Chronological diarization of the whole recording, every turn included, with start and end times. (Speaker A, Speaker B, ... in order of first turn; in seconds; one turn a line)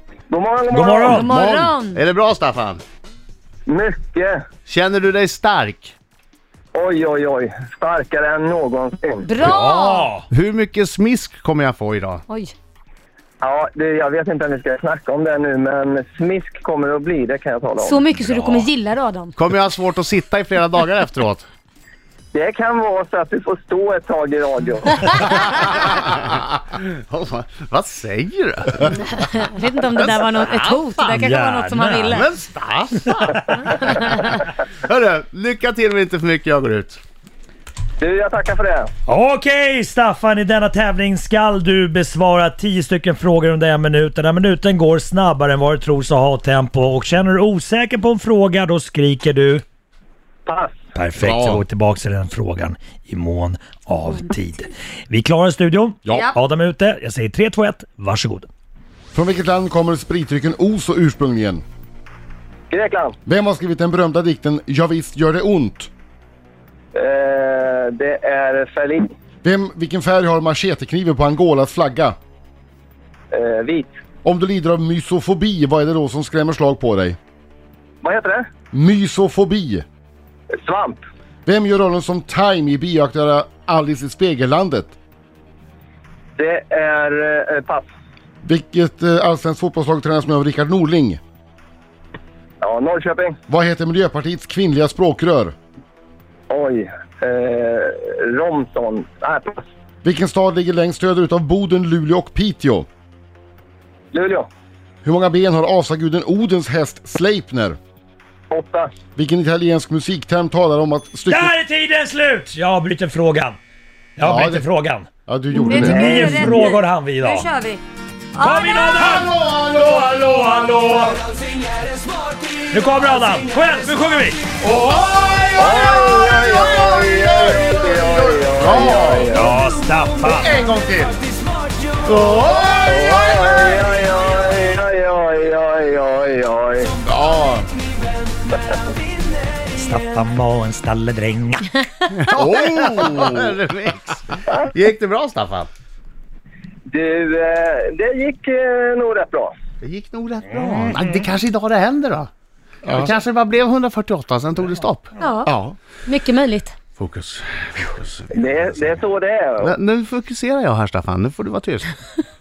Speaker A: 0.3-1.3
Speaker B: 0.7-1.3
Speaker C: 1.1-2.0
Speaker D: 1.2-2.8
Speaker A: 3.6-4.4
Speaker D: 4.7-5.9
Speaker A: 6.7-9.3
Speaker C: 9.2-10.1
Speaker B: 9.4-10.3
Speaker D: 10.3-12.2
Speaker C: 12.3-12.5
Speaker A: 13.4-18.0
Speaker C: 17.8-19.3
Speaker B: 18.1-18.6
Speaker D: 19.4-21.4
Speaker A: 22.3-25.1
Speaker D: 25.3-29.0
Speaker C: 29.1-32.2
Speaker D: 29.9-31.2
Speaker B: 31.2-32.1
Speaker D: 32.1-37.0
Speaker C: 33.6-34.2
Speaker A: 38.0-38.9
Speaker B: 39.1-49.6
Speaker A: 50.5-50.8
Speaker B: 50.9-58.5
Speaker E: 51.2-51.6
Speaker E: 56.0-56.3
Speaker E: 59.1-61.6
Speaker A: 62.7-63.2
Speaker E: 63.2-65.9
Speaker A: 66.9-69.1
Speaker E: 69.4-72.2
Speaker A: 73.3-73.9
Speaker E: 74.2-77.2
Speaker A: 78.0-78.4
Speaker E: 78.7-79.8
Speaker A: 80.6-81.0
Speaker E: 81.5-85.0
Speaker A: 86.4-87.9
Speaker E: 88.4-91.2
Speaker A: 92.6-93.4
Speaker E: 93.5-95.5
Speaker A: 96.5-99.6
Speaker E: 100.0-102.9
Speaker A: 104.1-104.5
Speaker E: 105.0-107.8
Speaker A: 108.5-108.9
Speaker E: 109.2-111.5
Speaker B: 111.3-113.6
Speaker B: 114.2-115.1
Speaker E: 114.2-114.7
Speaker E: 115.2-116.5
Speaker C: 115.5-117.8
Speaker B: 115.8-117.5
Speaker C: 118.3-119.1
Speaker B: 118.4-121.2
Speaker B: 122.6-124.5
Speaker D: 124.8-129.3
Speaker A: 125.5-129.5
Speaker B: 129.3-130.7
Speaker D: 130.2-131.2
Speaker D: 132.0-133.8
Speaker A: 132.8-136.9
Speaker E: 137.1-137.7
Speaker B: 139.7-141.7
Speaker D: 142.1-145.7
Speaker E: 142.3-143.6
Speaker A: 146.9-149.5
Speaker D: 149.8-152.3
Speaker E: 152.8-153.1
Speaker D: 152.9-155.1
Speaker C: 155.2-155.5
Speaker E: 155.4-155.8
Speaker C: 156.0-156.7
Speaker D: 156.9-159.0
Speaker A: 158.3-159.7
Speaker D: 159.6-161.9